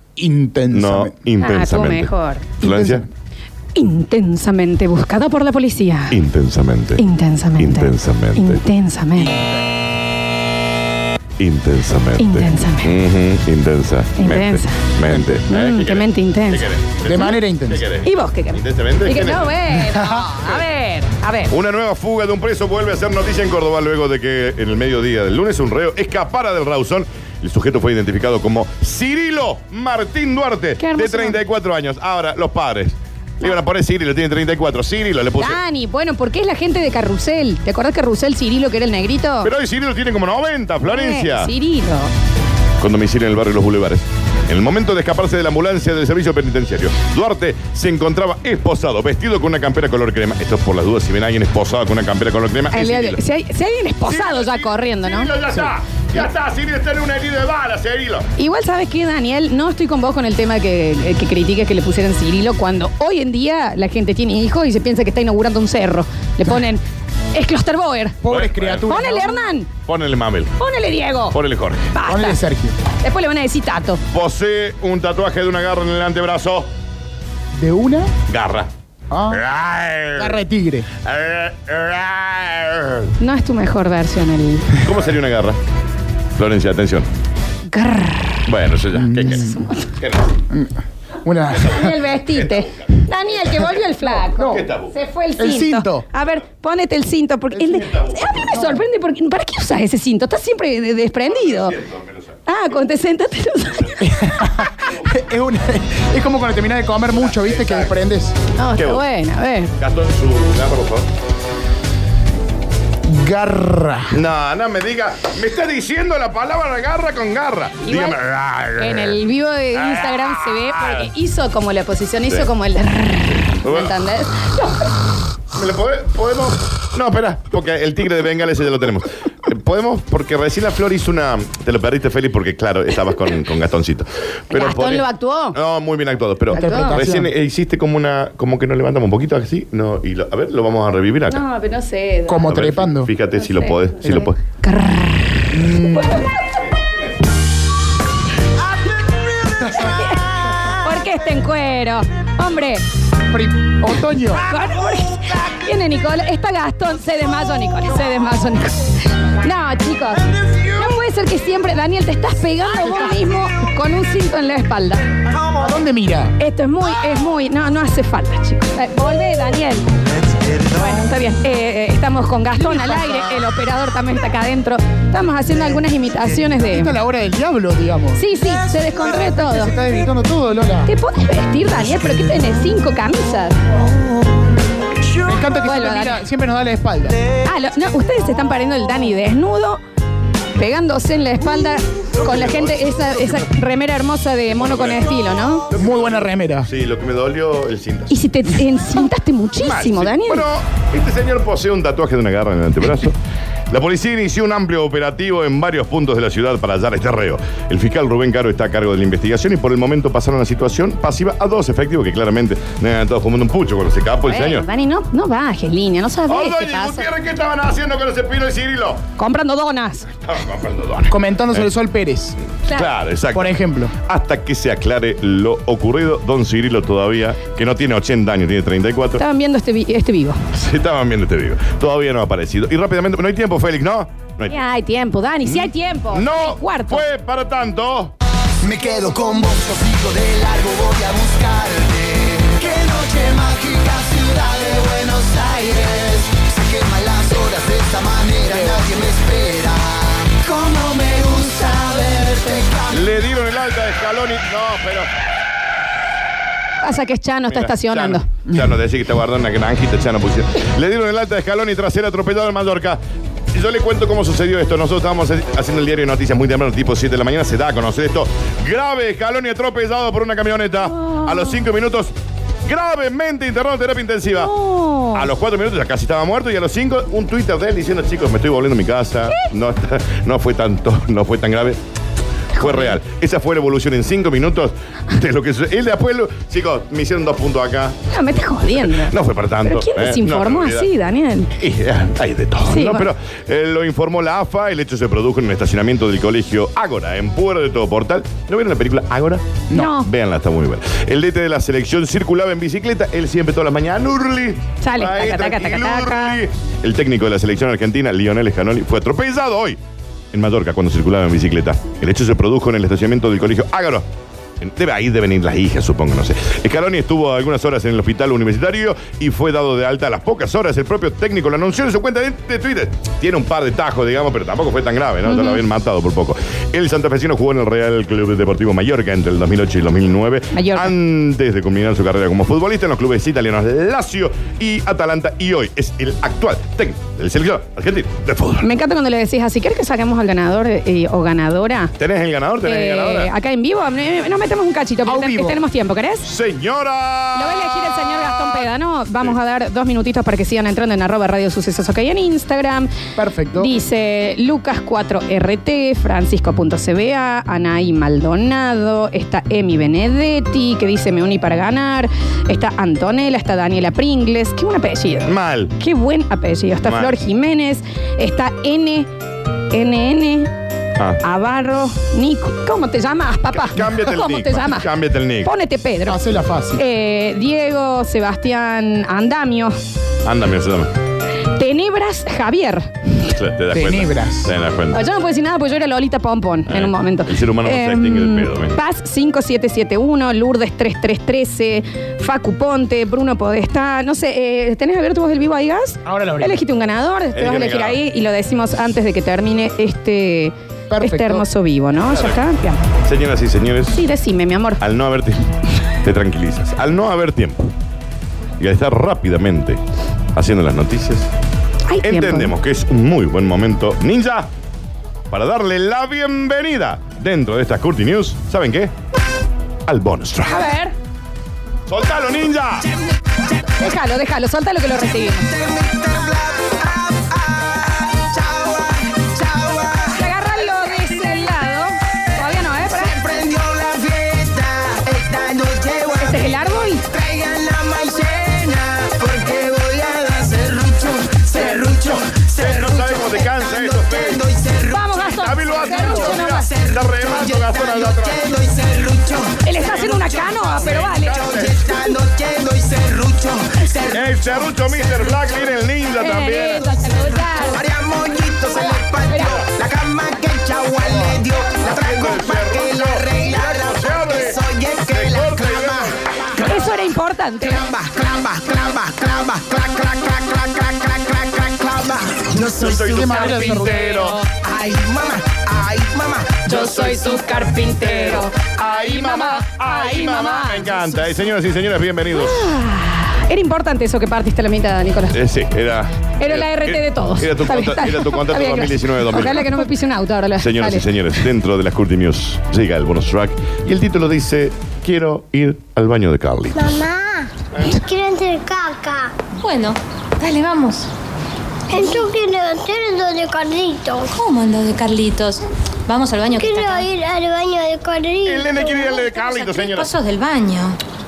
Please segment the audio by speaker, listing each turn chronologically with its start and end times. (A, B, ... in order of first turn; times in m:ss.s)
0:00.2-0:01.1 A
0:00.7-0:03.0 B
0:01.4-0:02.5 C
0:02.6-0:03.1 A
0:03.7-0:06.1 C
0:06.1-0:07.0 B
0:07.0-0:09.5 C
0:07.6-0:08.6 B
0:11.4-0:19.5 B
0:12.2-0:12.9 C
0:14.2-0:14.8 C
0:15.5-0:16.7 C
0:17.0-0:17.8 A
0:18.0-0:21.5 C
0:19.9-0:20.3 A
0:21.5-0:35.6 B
0:30.8-0:31.4 C
0:35.4-0:39.5 C
0:39.4-0:41.5 B
0:40.8-0:42.1 C
0:42.8-0:53.2 B
0:52.7-0:55.7 C
0:54.1-0:58.2 B
0:58.4-1:06.8 C
1:07.3-1:08.2 C
1:08.2-1:09.5 A
1:08.3-1:08.9 B
1:08.9-1:09.7 C
1:09.8-1:10.5 B
1:10.6-1:11.4 C
1:11.3-1:11.9 B
1:11.9-1:12.4 C
1:12.0-1:12.8 A
1:13.0-1:14.0 C
1:14.1-1:16.7 B
1:17.5-1:18.1 A
1:18.3-1:18.7 B
1:19.1-1:19.4 A
1:19.3-1:20.4 B
1:20.2-1:20.9 A
1:21.0-1:23.1 B
1:23.2-1:24.7 C
1:24.7-1:25.6 B
1:26.3-1:27.1 B
1:27.7-1:28.5 C
1:28.4-1:30.4 B
1:28.9-1:29.6 A
1:29.3-1:29.9 C
1:31.2-1:31.9 A
1:31.5-1:34.9 B
1:31.6-1:41.8 C
1:34.3-1:34.6 A
1:35.4-1:36.0 A
1:37.5-1:37.9 A
1:37.8-1:38.3 B
1:38.5-1:38.8 A
1:41.2-1:42.4 B
1:42.5-1:44.5 C
1:43.7-1:45.1 B
1:44.0-1:48.4 A
1:47.1-1:48.0 B
1:48.6-1:49.7 C
1:48.7-1:49.0 B
1:49.8-1:51.1 B
1:53.0-1:54.2 A
1:54.1-1:59.2 B
1:57.8-1:58.2 C
1:58.8-2:04.9 C
1:59.7-2:01.0 B
2:03.4-2:03.9 B
2:05.5-2:21.4 B
2:14.5-2:15.6 C
2:16.5-2:17.0 C
2:16.6-2:17.3 A
2:21.3-2:22.5 C
2:22.3-2:23.1 A
2:22.4-2:24.4 B
2:23.3-2:26.6 C
2:25.5-2:26.3 A
2:29.4-2:29.8 A
2:29.7-2:32.8 C
2:33.3-2:34.5 A
2:34.4-2:45.0 C
2:42.8-2:43.2 A
2:45.6-2:46.3 A
2:46.4-2:57.0 C
2:56.5-2:58.3 A
2:58.2-2:59.7 C
2:59.0-3:00.9 A
3:00.8-3:03.6 C
3:05.1-3:07.2 A
3:05.5-3:06.2 C
3:07.4-3:09.8 C
3:10.6-3:15.6 C
3:12.2-3:13.4 B
3:14.5-3:15.2 B
3:15.7-3:18.2 B
3:15.7-3:16.7 A
3:18.1-3:20.5 C
3:19.6-3:23.2 B
3:23.7-3:34.6 B
3:34.2-3:37.1 C
3:36.3-3:39.0 B
3:39.2-3:40.1 C
3:40.2-3:41.7 B
3:41.1-3:42.4 A
3:42.7-3:49.2 B
3:43.3-3:43.9 A
3:49.2-3:50.4 C
3:50.5-3:54.6 B
3:54.5-3:57.0 C
3:55.4-3:58.1 B
3:58.6-4:13.1 D
4:12.9-4:15.1 B
4:16.8-4:18.2 C
4:17.5-4:23.0 B
4:23.5-4:32.1 B
4:30.9-4:31.6 C
4:32.6-4:34.5 B
4:34.3-4:35.3 C
4:35.1-4:41.8 B
4:42.5-4:48.0 B
4:42.6-4:43.0 C
4:48.1-4:51.5 C
4:48.7-4:50.9 B
4:51.6-5:09.8 B
4:52.7-4:53.1 C
4:59.7-5:00.1 C
5:04.8-5:06.4 C
5:10.3-5:14.0 B
5:14.6-5:38.7 B
5:25.2-5:25.6 C
5:30.5-5:30.9 C
5:38.6-5:41.9 C
5:42.0-5:43.3 B
5:42.6-5:46.2 C
5:45.0-5:45.6 A
5:46.2-5:48.6 B
5:47.3-5:52.9 C
5:53.2-5:53.7 A
5:53.6-6:09.1 C
6:05.2-6:05.7 B
6:06.8-6:07.2 B
6:09.7-6:10.5 C
6:11.2-6:14.9 C
6:13.5-6:15.5 B
6:15.4-6:19.8 C
6:16.1-6:16.8 A
6:20.2-6:20.9 B
6:21.6-6:22.9 C
6:23.1-6:25.0 B
6:23.7-6:24.5 A
6:24.9-6:42.8 C
6:26.7-6:28.8 B
6:36.0-6:36.6 A
6:37.3-6:38.0 B
6:40.9-6:41.4 A
6:42.1-6:42.4 B
6:43.0-6:44.0 B
6:43.9-6:44.8 C
6:44.8-6:45.4 B
6:45.9-6:47.7 B
6:48.6-6:49.8 B
6:50.3-6:51.3 B
6:51.9-6:52.5 C
6:52.0-6:54.5 B
6:55.3-6:58.9 B
6:59.8-7:00.7 B
7:00.4-7:00.9 C
7:01.9-7:02.9 B
7:03.6-7:05.5 C
7:05.4-7:10.2 D
7:10.0-7:13.4 C
7:12.9-7:35.0 D
7:16.1-7:17.0 C
7:22.4-7:24.4 B
7:24.9-7:26.7 C
7:25.3-7:28.5 B
7:29.6-7:31.4 C
7:30.8-7:31.9 B
7:34.1-7:36.9 B
7:36.2-7:37.8 C
7:37.6-7:46.9 D
7:38.7-7:39.7 C
7:41.8-7:46.3 B
7:46.5-7:47.9 C
7:47.6-7:57.1 D
7:52.8-7:54.4 B
7:53.0-7:54.2 A
7:53.5-7:54.6 C
7:56.6-8:01.4 C
7:56.7-8:02.8 B
8:02.3-8:05.4 C
8:05.3-8:09.9 B
8:06.4-8:11.1 C
8:10.6-8:17.0 B
8:16.9-8:19.3 E
8:19.5-8:21.1 F
8:21.9-8:24.3 E
8:24.3-8:27.1 F
8:26.6-8:29.9 E
8:28.4-8:30.1 B
8:29.9-8:31.0 F